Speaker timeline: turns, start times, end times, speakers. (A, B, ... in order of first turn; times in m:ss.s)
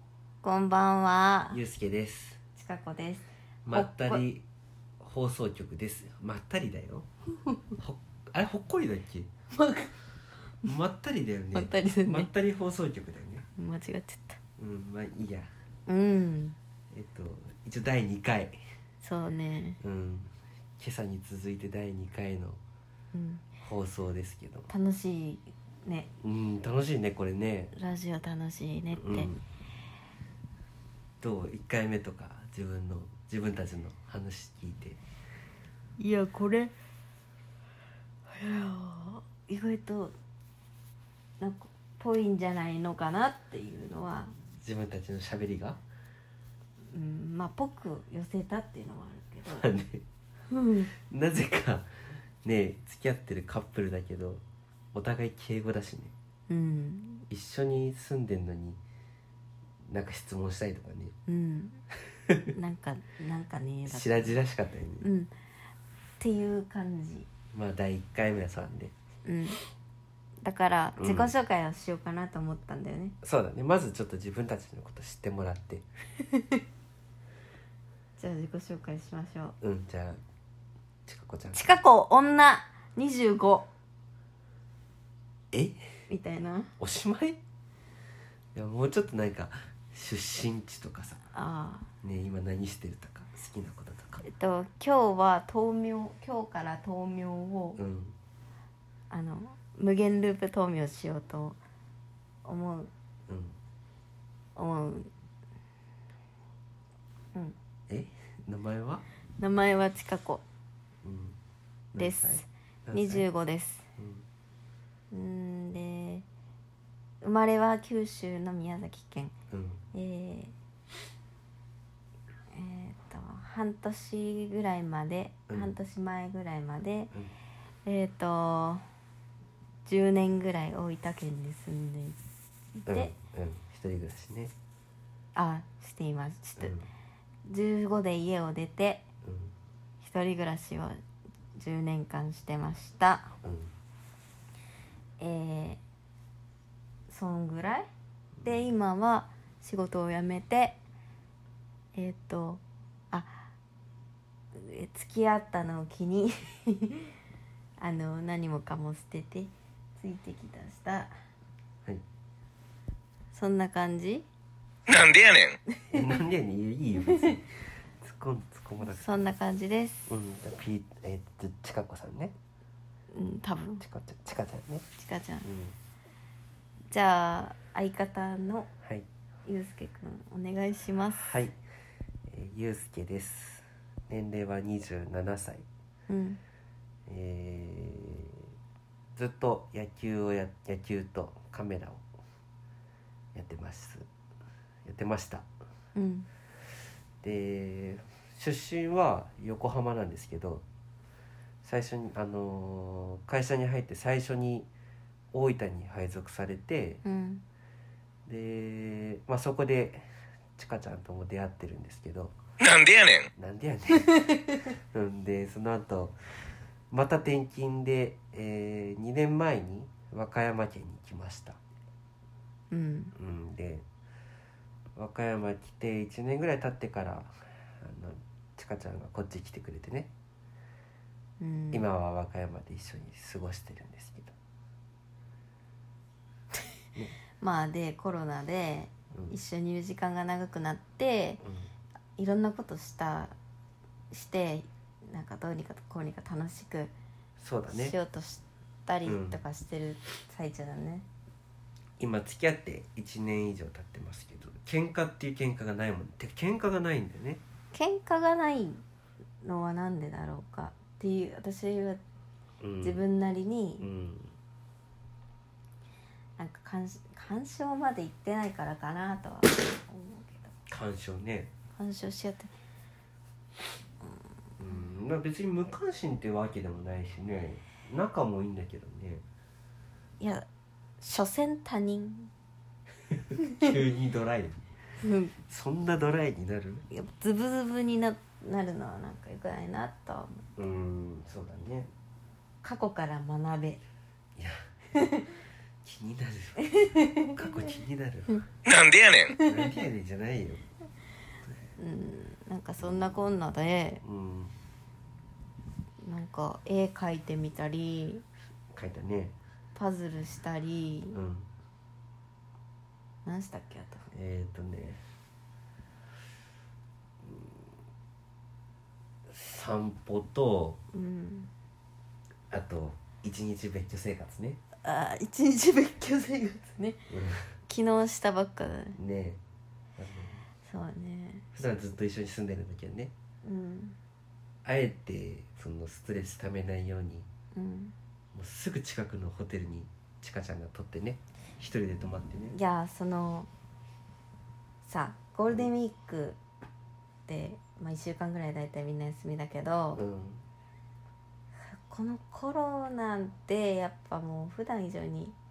0:00.4-0:01.6 A
0:01.5-0:02.4 B
0:02.6-0:04.2 A
0:03.7-0:04.4 B
0:05.0-0:07.1 B
0:07.8-0:09.3 B
0:09.5-0:09.9 A
0:10.6-0:13.5 B
0:11.5-0:12.3 A
0:13.6-0:14.4 A
0:14.6-0:15.5 B
0:15.9-0:16.6 A
0:16.9-0:18.6 B
0:19.0-0:19.8 A
0:19.8-0:22.6 B
0:23.1-0:23.5 A
0:23.6-0:24.7 B
0:24.7-0:26.1 A
0:26.2-0:27.8 B
0:27.7-0:29.3 A
0:29.0-0:29.4 B
0:31.2-0:35.0 B
0:36.0-0:36.7 A
0:38.3-0:40.2 A
0:41.4-0:44.3 A
0:44.6-0:45.8 B
0:46.9-0:49.7 A
0:49.5-0:50.0 B
0:50.5-0:50.9 A
0:50.9-0:51.9 B
0:52.4-0:54.4 B
0:54.9-0:56.1 B
0:56.5-0:57.3 A
0:57.3-0:58.8 B
0:59.9-1:01.1 B
1:01.3-1:01.8 A
1:02.5-1:04.4 A
1:03.9-1:05.1 B
1:05.0-1:05.3 A
1:06.2-1:07.3 A
1:07.5-1:08.9 B
1:09.2-1:09.6 A
1:10.4-1:13.2 A
1:11.0-1:11.3 B
1:13.2-1:15.8 B
1:16.3-1:16.6 A
1:18.2-1:19.6 A
1:19.6-1:20.2 B
1:21.1-1:21.7 B
1:21.5-1:23.7 A
1:25.5-1:25.8 B
1:26.1-1:26.7 A
1:26.8-1:27.4 B
1:28.6-1:31.2 B
1:31.3-1:31.9 A
1:32.0-1:34.2 B
1:34.2-1:37.8 A
1:37.8-1:38.2 B
1:39.1-1:41.6 A
1:42.4-1:42.9 A
1:43.3-1:43.6 B
1:44.6-1:45.1 A
1:47.9-1:49.0 B
1:49.4-1:50.4 A
1:51.0-1:51.4 B
1:51.9-1:53.2 B
1:52.0-1:53.9 A
1:54.0-1:54.2 B
1:55.1-1:56.2 A
1:57.2-1:59.3 A
1:59.5-1:59.8 B
1:59.9-2:00.5 A
2:02.5-2:07.1 A
2:07.8-2:08.8 A
2:09.8-2:12.2 A
2:12.8-2:13.1 A
2:12.9-2:14.5 B
2:15.4-2:16.8 A
2:16.6-2:16.9 B
2:17.4-2:19.1 A
2:19.2-2:19.5 B
2:20.0-2:21.0 A
2:21.6-2:23.3 A
2:23.4-2:23.7 B
2:25.2-2:25.8 A
2:27.1-2:27.9 A
2:28.4-2:28.7 B
2:28.4-2:30.8 A
2:32.0-2:33.5 A
2:34.6-2:37.1 A
2:37.8-2:41.1 A
2:43.3-2:44.3 A
2:44.9-2:45.6 C
2:45.7-2:46.0 A
2:45.9-2:49.3 B
2:48.8-2:50.1 A
2:50.1-2:52.3 B
2:53.1-2:53.8 A
2:53.8-2:54.9 B
2:55.0-2:55.5 A
2:55.4-2:55.8 B
2:56.9-2:58.7 A
2:59.5-3:01.3 A
3:01.2-3:01.6 B
3:02.3-3:05.6 B
3:06.1-3:06.4 A
3:07.1-3:08.5 B
3:09.2-3:12.0 B
3:13.3-3:14.1 B
3:14.8-3:15.5 B
3:16.0-3:16.3 A
3:17.2-3:20.6 B
3:21.6-3:24.7 B
3:25.3-3:27.0 B
3:27.0-3:27.4 A
3:28.3-3:32.4 B
3:32.6-3:33.3 C
3:33.4-3:36.2 B
3:36.9-3:41.6 B
3:42.7-3:43.2 A
3:43.2-3:43.8 B
3:45.0-3:50.1 B
3:51.4-3:51.9 A
3:51.7-3:54.3 B
3:57.4-4:01.4 A
4:01.4-4:01.7 B
4:02.2-4:03.4 A
4:04.1-4:06.9 A
4:07.4-4:08.0 B
4:07.7-4:11.1 A
4:09.1-4:09.4 B
4:12.0-4:17.4 B
4:17.7-4:18.8 A
4:19.4-4:22.0 A
4:22.6-4:23.0 B
4:22.8-4:23.9 A
4:23.8-4:24.3 B
4:26.4-4:30.5 A
4:30.7-4:31.5 B
4:31.8-4:32.5 A
4:34.6-4:39.2 B
4:40.2-4:40.5 A
4:41.0-4:42.3 A
4:43.5-4:44.6 B
4:45.0-4:45.4 A
4:45.5-4:46.9 B
4:46.9-4:50.4 A
4:50.6-4:51.9 B
4:52.6-4:53.8 A
4:54.4-4:54.6 B
4:54.9-4:55.4 A
4:55.8-4:58.4 B
4:56.6-4:57.5 A
4:58.7-4:59.3 C
4:59.3-4:59.6 A
4:59.4-5:00.6 B
5:01.8-5:04.0 A
5:02.8-5:03.3 B
5:04.0-5:04.6 B
5:06.0-5:08.2 A
5:08.7-5:09.4 B
5:09.8-5:11.2 A
5:11.1-5:11.5 B
5:13.2-5:14.1 A
5:14.1-5:15.0 B
5:17.2-5:17.7 B
5:19.3-5:20.8 B
5:20.9-5:21.5 A
5:22.5-5:24.6 B
5:24.8-5:27.1 A
5:27.1-5:27.5 B
5:27.7-5:29.0 A
5:29.0-5:29.4 B
5:30.0-5:30.4 B
5:30.7-5:31.5 A
5:31.5-5:33.1 B
5:33.4-5:34.0 A
5:34.6-5:37.3 B
5:37.5-5:37.9 A
5:38.3-5:42.6 B
5:42.5-5:43.5 A
5:44.8-5:46.4 A
5:47.3-5:50.0 A
5:50.0-5:50.4 B
5:51.6-5:55.4 A